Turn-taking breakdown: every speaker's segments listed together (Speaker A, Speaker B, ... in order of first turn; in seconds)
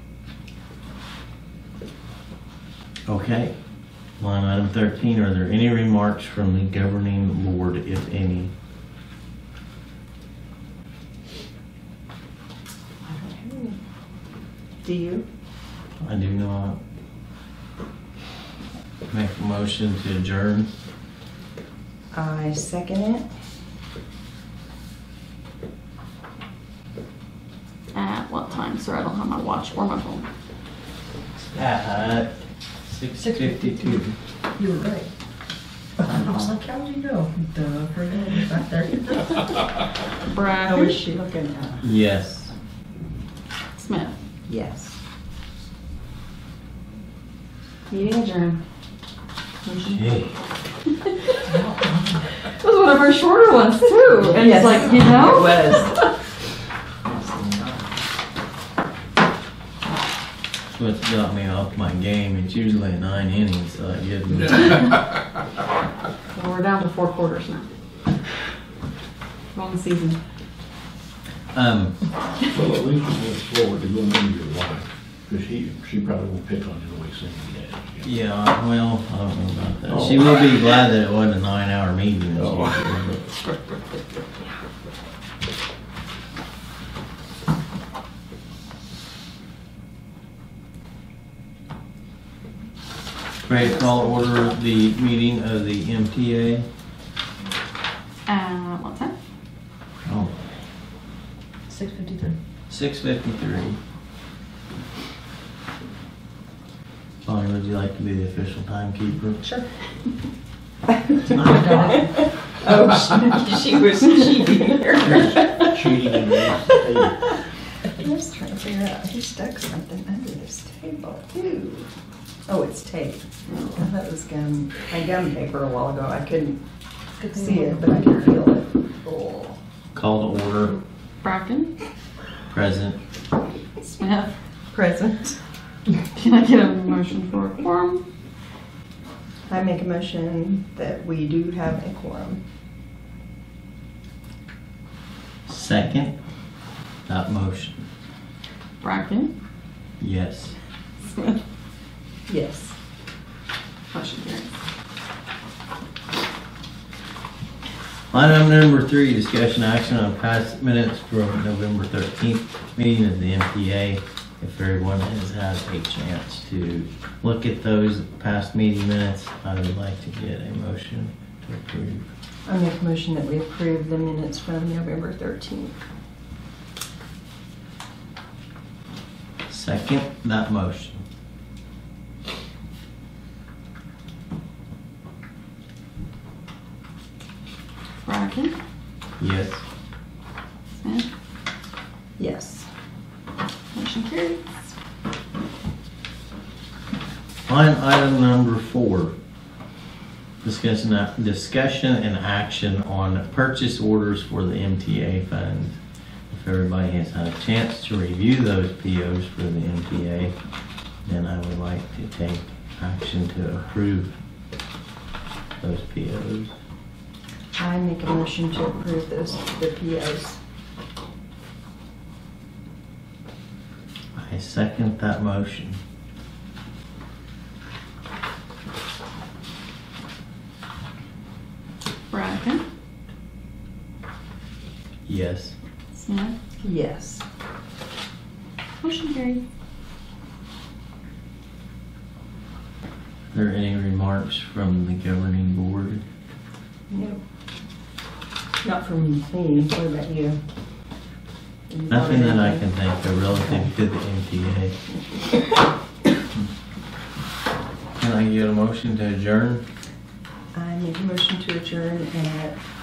Speaker A: 3.1-3.5, 4.2-8.5, 16.0-16.8, 19.1-20.7, 31.5-32.3, 32.9-34.1, 41.8-42.5, 49.9-50.3, 60.8-65.0, 71.5-72.0, 78.0-83.2, 93.4-96.7, 100.0-100.3, 102.7-103.8, 107.2-109.4, 129.9-130.8, 132.5-133.0, 145.4-146.2, 147.1-147.9, 150.0-150.6, 158.1-172.1, 179.5-181.0, 189.2-189.6, 197.5-199.1, 200.4-205.8, 206.3-210.3, 211.1-214.2, 215.6-216.5, 224.1-225.8, 235.1-235.5, 243.3-246.0, 251.9-254.8, 258.0-259.6
Speaker B: 13.0-13.8, 14.8-15.2, 22.1-23.2, 36.1-39.6, 40.6-41.8, 44.5-45.0, 54.1-56.0, 111.2-116.8, 118.0-121.9, 122.5-126.6, 127.3-129.6, 134.7-135.4, 139.5-142.4, 152.3-152.8, 172.4-175.8, 192.2-192.7, 217.6-220.4, 236.6-237.2, 246.9-247.2, 248.6-250.4, 251.7-252.7, 260.5-262.6
Speaker C: 27.9-30.2, 40.2-41.0, 43.8-44.1, 47.9-48.6, 52.6-55.9, 66.3-67.7, 69.5-70.2, 98.2-99.1, 123.5-123.8, 131.2-131.7, 134.0-134.3, 136.1-138.0, 148.8-149.3, 151.0-151.4, 153.9-154.5, 188.0-188.5, 190.8-191.1, 193.7-194.4, 232.1-232.6, 235.9-236.3, 238.8-239.4
Speaker D: 33.2-33.7, 34.6-35.0, 36.2-37.5, 101.7-102.3, 111.4-112.1, 127.2-128.2
Speaker E: 72.5-78.0, 115.0-117.1